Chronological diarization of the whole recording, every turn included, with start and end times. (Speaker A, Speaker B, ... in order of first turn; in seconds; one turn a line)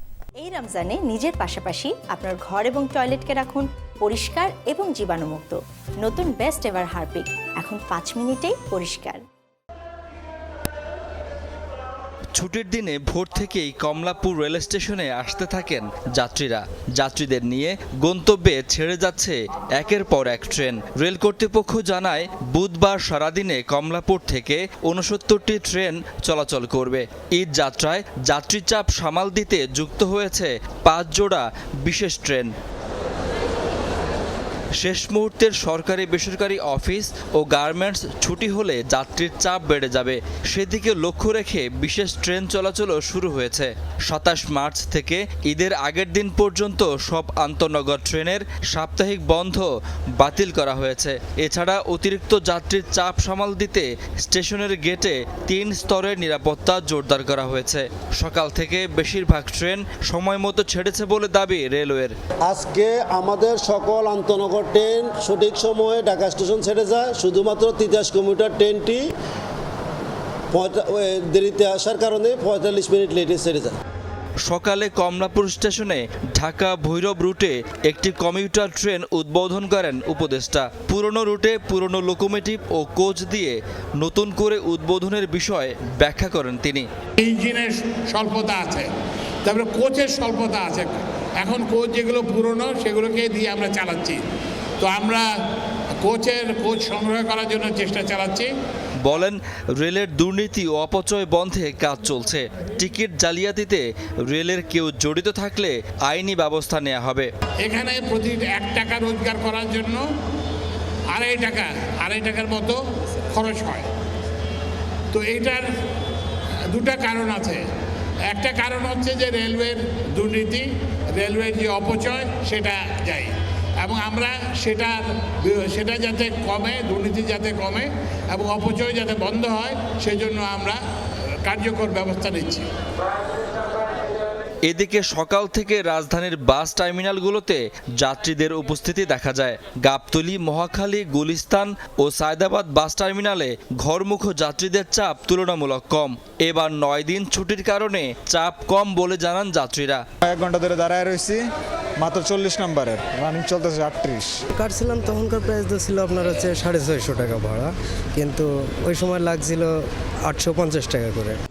Speaker A: 0.4-9.2
Speaker B: 12.3-32.5
Speaker B: 34.8-49.7
Speaker B: 50.2-62.1
Speaker C: 62.5-69.1
Speaker C: 70.5-73.8
Speaker B: 74.4-86.9
Speaker D: 87.2-88.9
Speaker D: 89.5-94.2
Speaker D: 94.8-95.3
Speaker D: 96.0-98.5
Speaker B: 99.0-107.3
Speaker D: 107.6-110.0
Speaker D: 111.1-113.9
Speaker D: 115.1-115.7
Speaker D: 116.7-117.6
Speaker D: 118.3-130.8
Speaker D: 131.4-132.7
Speaker B: 134.7-150.0
Speaker E: 150.2-151.5
Speaker E: 152.0-154.4
Speaker F: 154.5-161.4